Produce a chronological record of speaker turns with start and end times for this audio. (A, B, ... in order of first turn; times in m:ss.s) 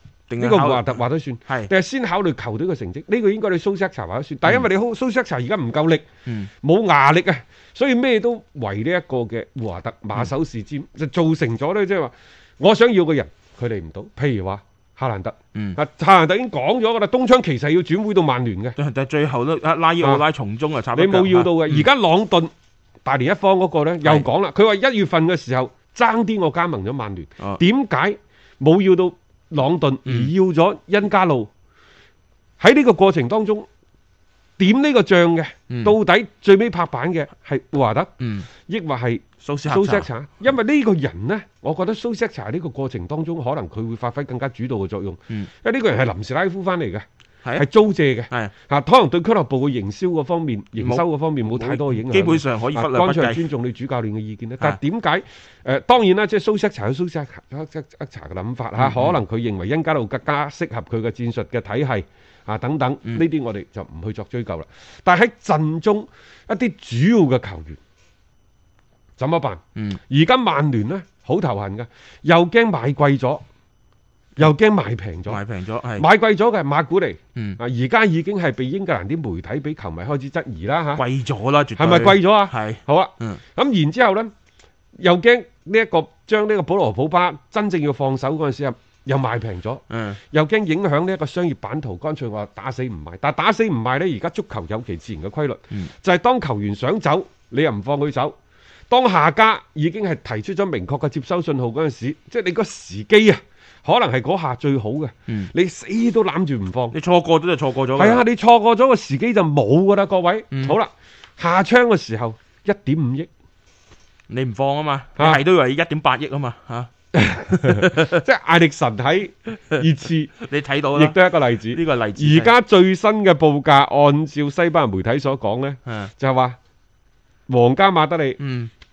0:00.3-0:01.7 A
0:00.4-0:06.0 B
0:06.6-0:18.8 B
0:18.8-0:21.9 A
0:20.9-0:22.5 B
0:23.0-0:31.5 B
0:32.6-0:33.7 B
0:34.6-0:47.0 B
0:35.7-0:35.9 A
0:38.2-0:38.5 A
0:39.4-0:40.1 A
0:47.6-1:07.8 B
0:50.8-0:53.5 A
0:58.8-0:59.2 A
1:09.2-1:13.4 B
1:14.4-1:15.4 B
1:15.3-1:16.0 A
1:16.0-1:21.0 B
1:21.0-1:23.4 A
1:21.8-1:24.3 B
1:24.9-1:38.4 B
1:29.9-1:30.2 A
1:38.9-1:46.9 B
1:46.9-1:48.2 A
1:48.0-1:53.3 B
1:50.5-1:50.8 A
1:54.3-1:56.9 A
1:57.1-2:00.4 B
1:57.4-1:58.2 A
2:00.4-2:02.5 A
2:00.9-2:06.6 B
2:05.8-2:06.1 A
2:07.5-2:08.4 B
2:08.4-2:08.7 A